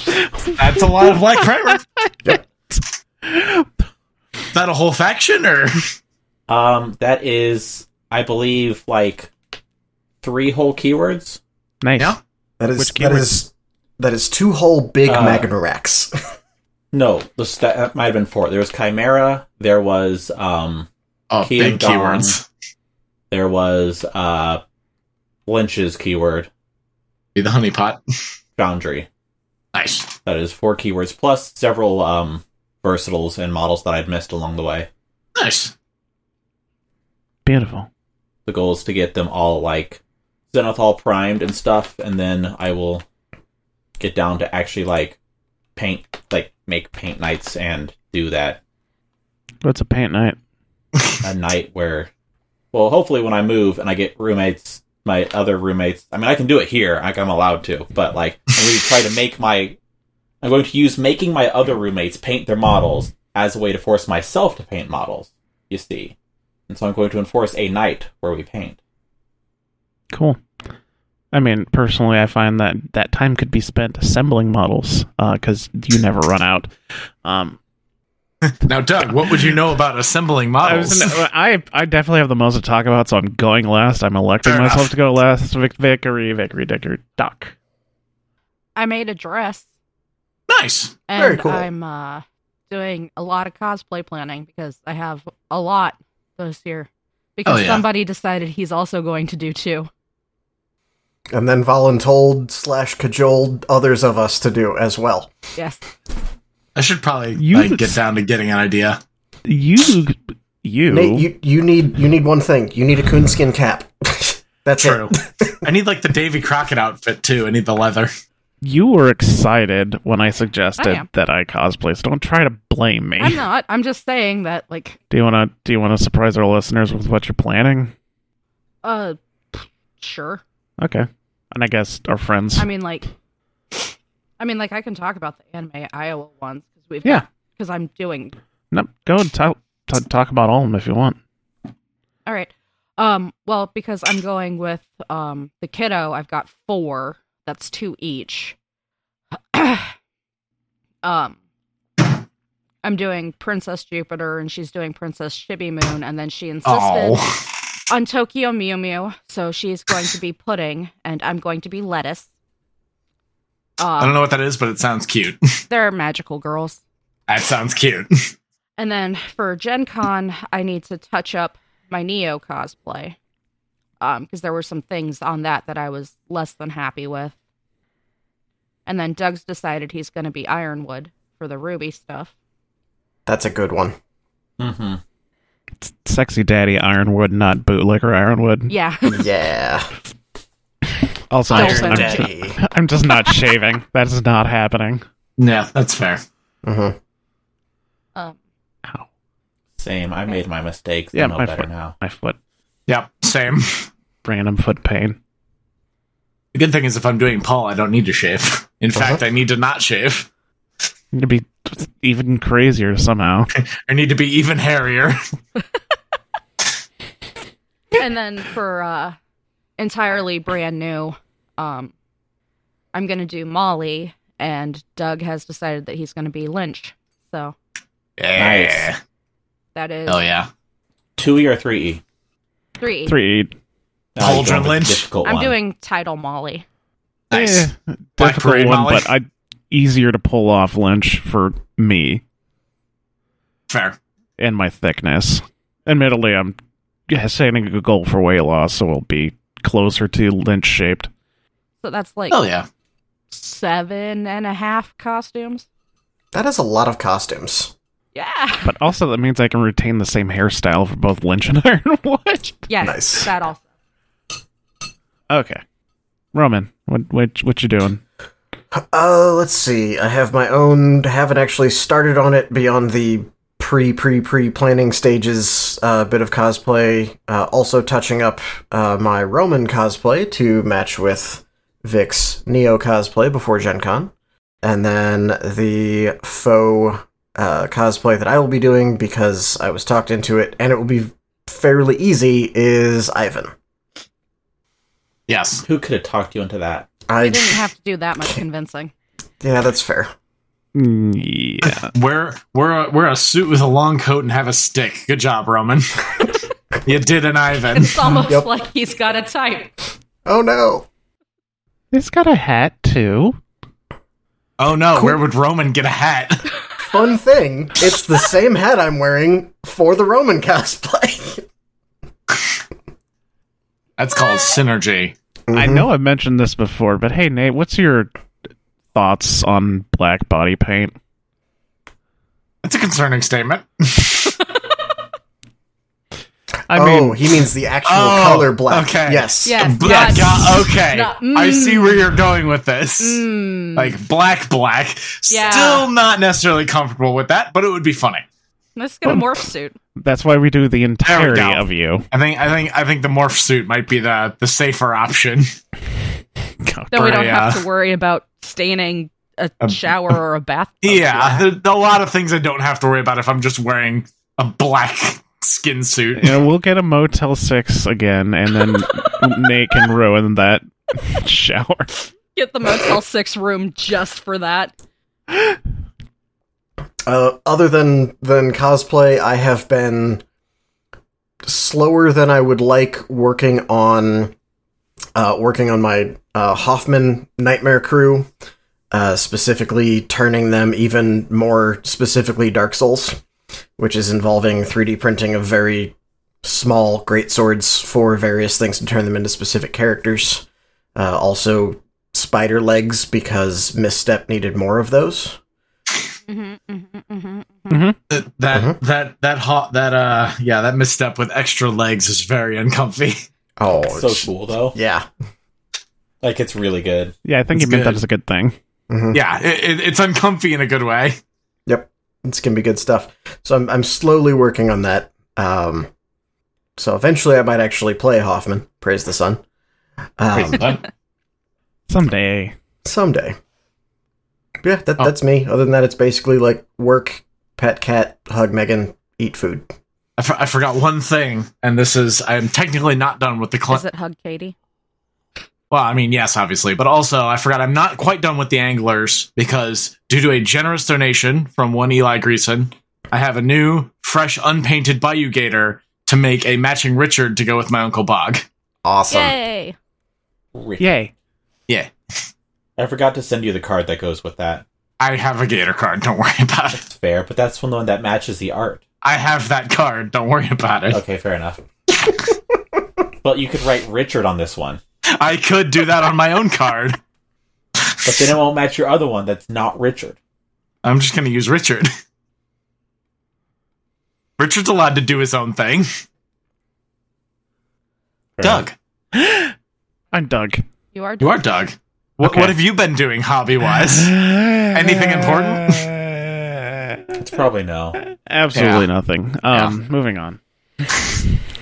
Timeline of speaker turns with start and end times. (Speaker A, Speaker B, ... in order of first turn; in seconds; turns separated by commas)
Speaker A: 0.6-1.8, Speaker B: 1.7-3.7, Speaker A: 4.5-5.8, Speaker C: 6.5-9.3, Speaker C: 10.2-11.4, Speaker B: 11.8-12.2, Speaker D: 12.6-16.1, Speaker B: 12.8-13.4, Speaker C: 15.1-15.5, Speaker C: 16.9-20.9, Speaker A: 21.3-22.4, Speaker C: 21.4-22.3, Speaker C: 23.3-24.6, Speaker C: 25.4-26.5, Speaker A: 27.3-28.0, Speaker C: 28.6-29.1, Speaker A: 29.7-30.1, Speaker C: 30.2-34.9, Speaker A: 35.4-35.7, Speaker B: 37.5-37.9, Speaker C: 38.5-40.0, Speaker C: 40.5-43.0, Speaker C: 44.0-45.2, Speaker C: 45.8-48.6, Speaker B: 49.6-50.4, Speaker C: 51.2-52.1, Speaker C: 52.7-59.8, Speaker C: 60.4-66.1, Speaker C: 66.7-68.8, Speaker B: 70.1-70.4, Speaker B: 71.3-76.7, Speaker B: 77.2-77.6, Speaker A: 78.5-81.2, Speaker B: 80.6-87.5, Speaker A: 84.5-84.9, Speaker E: 88.8-89.7, Speaker A: 90.5-91.0, Speaker E: 91.1-99.9, Speaker D: 91.2-91.7, Speaker A: 97.5-97.8, Speaker D: 101.3-105.3, Speaker E: 105.6-105.8, Speaker A: 106.7-109.0, Speaker B: 107.4-108.0, Speaker B: 109.5-111.2, Speaker D: 110.9-115.6, Speaker A: 114.8-118.1, Speaker B: 118.6-123.4, Speaker E: 120.8-121.0, Speaker E: 123.2-125.0, Speaker B: 125.1-127.9, Speaker E: 128.8-130.4, Speaker B: 130.8-132.7, Speaker E: 132.6-133.0, Speaker E: 134.4-138.3, Speaker B: 138.7-141.2, Speaker E: 142.2-148.6, Speaker E: 149.5-149.9, Speaker E: 151.0-151.3, Speaker E: 152.8-157.2, Speaker A: 156.6-157.4, Speaker E: 157.9-162.3, Speaker E: 163.8-164.2, Speaker A: 164.0-165.4, Speaker E: 165.7-166.8, Speaker A: 167.3-168.3, Speaker E: 168.8-173.2, Speaker E: 174.0-177.3, Speaker E: 178.8-182.3, Speaker D: 183.2-183.9, Speaker C: 184.6-185.0, Speaker B: 185.8-188.7, Speaker E: 188.7-189.2, Speaker D: 189.1-189.9, Speaker B: 191.3-195.0, Speaker E: 191.5-192.2, Speaker A: 191.5-192.2, Speaker D: 191.5-192.6, Speaker A: 195.4-196.2, Speaker D: 196.6-196.9, Speaker C: 199.8-201.9, Speaker B: 201.1-202.4, Speaker A: 202.9-203.9, Speaker B: 204.2-205.2, Speaker A: 206.5-210.3, Speaker B: 211.1-213.5, Speaker A: 213.8-215.2, Speaker E: 217.9-219.2, Speaker E: 219.8-221.9, Speaker E: 222.9-227.5, Speaker A: 228.2-229.0, Speaker C: 228.4-228.9, Speaker E: 229.7-230.2, Speaker A: 230.1-230.5, Speaker C: 231.2-232.0, Speaker E: 232.8-233.1, Speaker B: 233.1-233.5, Speaker C: 234.1-235.5, Speaker A: 234.2-235.0, Speaker E: 235.2-236.6, Speaker A: 237.3-237.7, Speaker B: 237.3-242.2, Speaker A: 238.2-239.1, Speaker A: 243.7-244.0, Speaker B: 244.4-246.5, Speaker B: 247.1-251.1, Speaker E: 251.8-252.4, Speaker A: 252.3-252.7, Speaker E: 253.3-255.6, Speaker D: 256.3-257.7, Speaker E: 258.1-258.7, Speaker B: 258.6-262.6, Speaker E: 262.7-263.6, Speaker D: 262.8-263.3, Speaker B: 265.3-265.6, Speaker B: 266.3-268.0, Speaker D: 268.7-293.5, Speaker A: 295.3-295.6, Speaker C: 295.6-296.9, Speaker D: 297.1-297.6, Speaker E: 297.2-298.9, Speaker D: 299.4-300.1, Speaker B: 300.7-301.9, Speaker A: 301.8-306.3, Speaker A: 306.8-308.0, Speaker E: 307.7-309.7, Speaker D: 308.2-308.5, Speaker D: 310.2-310.9, Speaker B: 311.9-313.4, Speaker A: 314.6-316.4, Speaker D: 316.8-321.4, Speaker A: 324.0-325.1, Speaker D: 325.5-325.9, Speaker B: 325.5-328.1, Speaker B: 328.9-330.9, Speaker A: 332.6-334.2, Speaker B: 336.7-337.2, Speaker D: 336.7-339.7, Speaker A: 337.9-343.2, Speaker E: 339.4-342.1, Speaker E: 343.0-343.9, Speaker A: 343.7-348.2, Speaker E: 345.3-345.9, Speaker E: 348.8-349.8, Speaker B: 350.0-352.0, Speaker A: 351.1-355.4, Speaker B: 356.6-357.3, Speaker E: 356.9-361.4, Speaker A: 357.1-357.6, Speaker A: 360.8-366.4, Speaker B: 366.1-371.9, Speaker E: 368.8-369.3, Speaker E: 372.3-374.7, Speaker D: 377.1-380.2, Speaker D: 381.4-384.3, Speaker D: 385.1-388.3, Speaker D: 388.9-393.2, Speaker D: 393.8-405.4, Speaker E: 406.3-407.8, Speaker B: 407.7-407.9, Speaker A: 408.1-413.2, Speaker D: 408.5-408.8, Speaker D: 413.6-415.1, Speaker C: 413.9-414.8, Speaker C: 416.2-417.1, Speaker B: 417.2-418.5, Speaker A: 417.5-418.0, Speaker D: 418.9-419.2, Speaker A: 419.1-421.2, Speaker D: 421.7-425.9, Speaker D: 426.8-429.4, Speaker D: 430.2-430.7, Speaker A: 430.4-430.8, Speaker B: 431.9-432.5, Speaker D: 432.8-433.4, Speaker D: 434.6-439.7, Speaker A: 440.2-443.8, Speaker E: 443.7-444.5, Speaker A: 445.7-458.4, Speaker D: 458.8-459.4, Speaker E: 459.1-459.8, Speaker C: 460.5-460.9, Speaker B: 460.8-461.1, Speaker C: 462.8-464.6, Speaker A: 465.0-466.8, Speaker C: 466.8-468.8, Speaker A: 469.0-471.0, Speaker C: 470.9-471.6, Speaker C: 473.2-474.8, Speaker A: 475.2-477.0, Speaker C: 478.0-480.2, Speaker A: 480.8-481.9, Speaker A: 484.4-485.9, Speaker C: 488.4-488.6, Speaker A: 488.4-488.7, Speaker B: 489.1-489.5, Speaker B: 490.1-490.6, Speaker E: 490.9-491.4, Speaker A: 491.2-494.1, Speaker B: 492.2-492.6, Speaker B: 493.9-497.0, Speaker A: 494.7-495.9, Speaker C: 497.1-498.0, Speaker B: 498.0-501.2, Speaker A: 498.5-498.9